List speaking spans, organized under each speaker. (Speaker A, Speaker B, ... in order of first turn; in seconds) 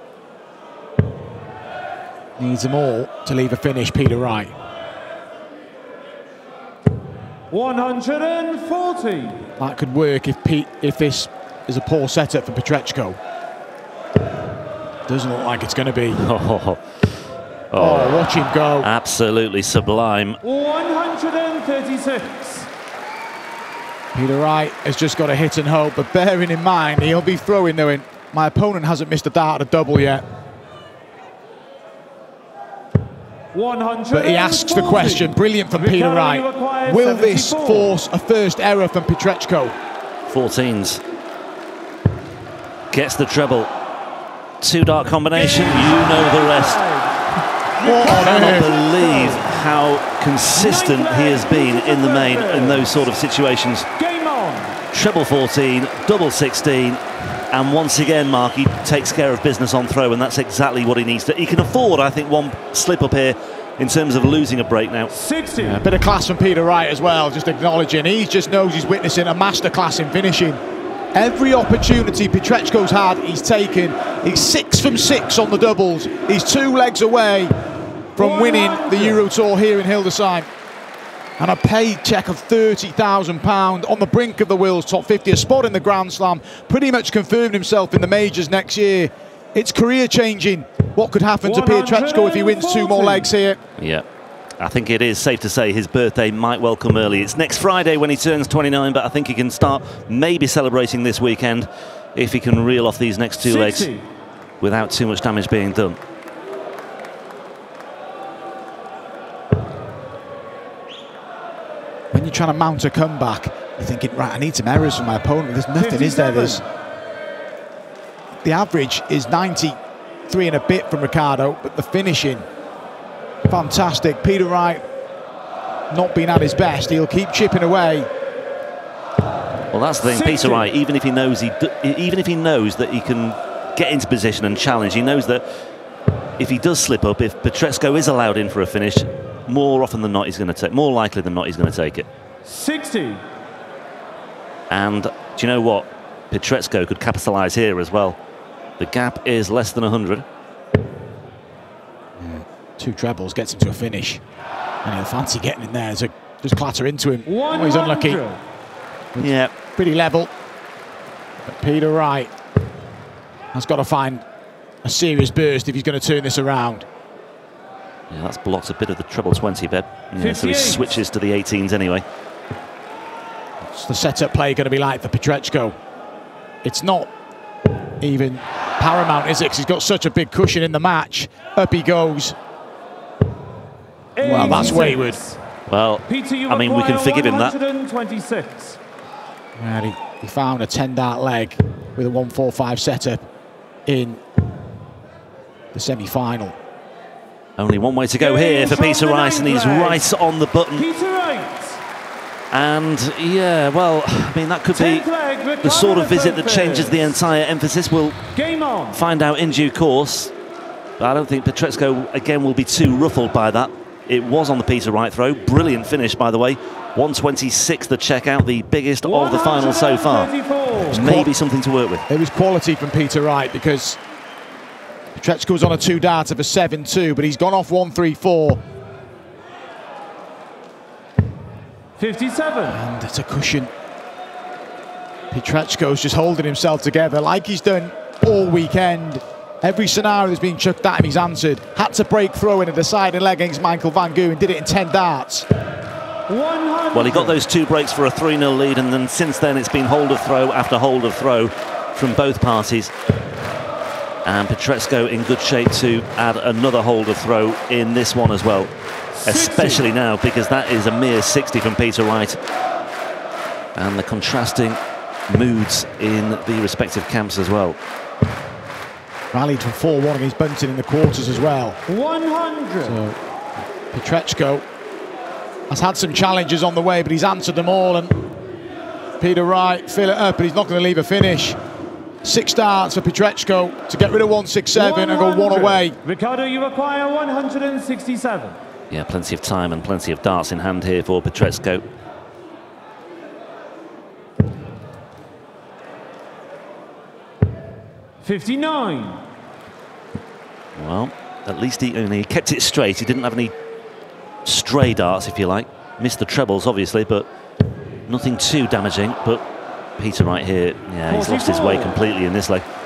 Speaker A: 2.4-4.5, 9.6-13.2, 15.1-16.2, 17.8-18.9, 24.1-30.2, 34.1-39.8, 47.8-48.7, 65.5-70.6, 71.1-77.5, 78.2-80.5, 81.4-93.6, 112.1-116.6, 118.4-122.5, 123.5-124.8, 125.9-128.1, 152.2-154.2, 154.8-158.2, 159.1-160.3, 161.4-162.3, 163.5-164.2, 164.8-166.9, 173.6-175.8, 176.6-177.1, 178.0-182.3, 184.2-185.2, 189.6-193.2, 193.8-194.2, 195.7-196.6, 220.8-221.3, 222.1-224.0, 225.1-228.6, 232.7-233.7, 235.3-245.5, 269.3-271.8, 272.8-273.2, 273.9-274.6, 275.7-278.2, 279.2-281.6, 282.2-285.9
Speaker B: 7.5-9.5, 20.4-22.7, 33.5-38.0, 45.3-47.2, 47.8-49.4, 50.5-53.1, 54.0-54.8, 65.1-65.8, 78.2-79.2, 91.4-93.3, 103.4-104.0, 115.8-116.6, 130.0-130.6, 142.4-143.2, 157.2-158.4, 170.2-171.0, 184.2-185.4, 186.1-188.8, 198.2-200.1, 200.7-201.8, 204.7-207.1, 208.3-209.0, 219.0-221.0, 232.0-232.8, 246.3-247.4, 259.1-259.9, 271.9-273.0, 284.7-288.6, 298.2-299.2, 311.1-312.0
Speaker C: 16.1-16.8, 17.7-20.4, 40.3-41.0, 42.9-43.7, 44.6-46.8, 48.0-53.9, 54.9-65.1, 93.8-94.0, 94.6-103.9, 104.6-106.0, 129.7-135.4, 136.4-142.1, 144.7-148.2, 148.8-150.2, 159.2-159.5, 168.1-172.0, 185.7-187.5, 197.6-200.9, 202.5-205.1, 205.6-208.2, 208.9-210.3, 211.0-222.1, 246.9-252.9, 254.2-258.7, 259.2-262.4, 263.7-267.8, 288.9-291.8, 300.8-303.5, 304.4-307.3, 308.1-309.4, 310.0-312.6